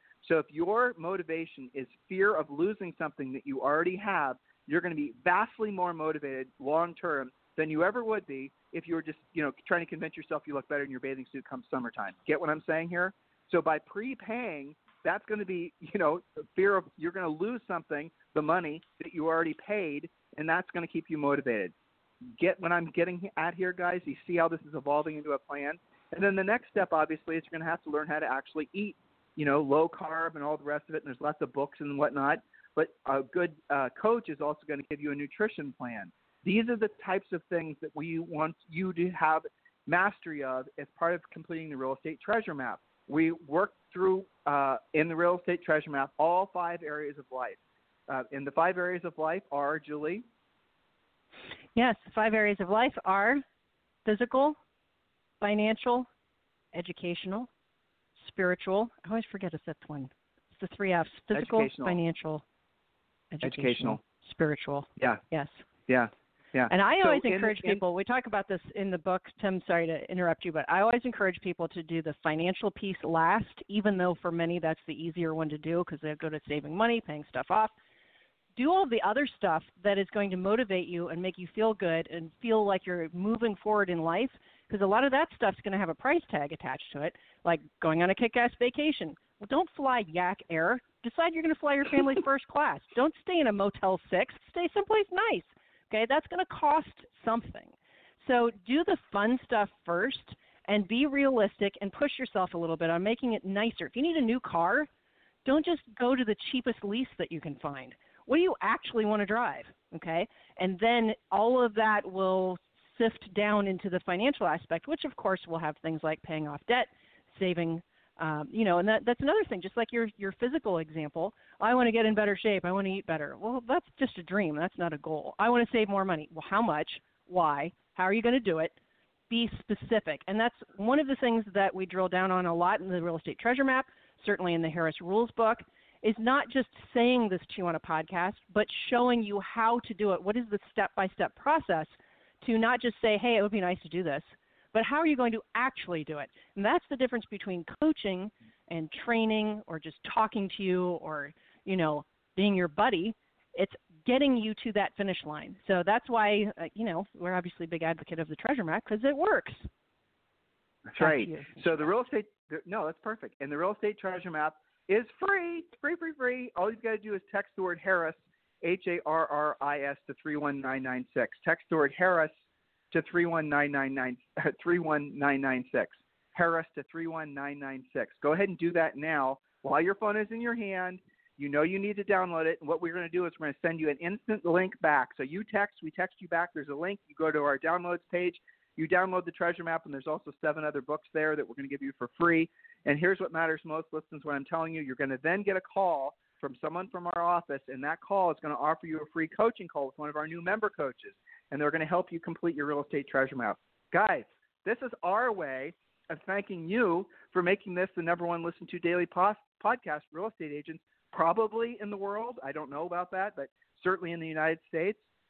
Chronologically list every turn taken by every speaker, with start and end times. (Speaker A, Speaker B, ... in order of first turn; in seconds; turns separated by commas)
Speaker A: 0.2-21.7, Speaker A: 22.4-50.2, Speaker B: 51.8-53.4, Speaker B: 54.0-54.6, Speaker B: 55.4-56.1, Speaker B: 56.7-57.5, Speaker B: 58.2-62.4, Speaker A: 61.3-62.0, Speaker B: 63.3-65.5, Speaker A: 63.4-64.0, Speaker A: 65.9-67.8, Speaker B: 66.7-77.7, Speaker B: 78.5-104.9, Speaker B: 105.4-128.8, Speaker B: 129.3-159.7, Speaker A: 160.9-172.3, Speaker B: 161.0-161.9, Speaker A: 172.9-215.0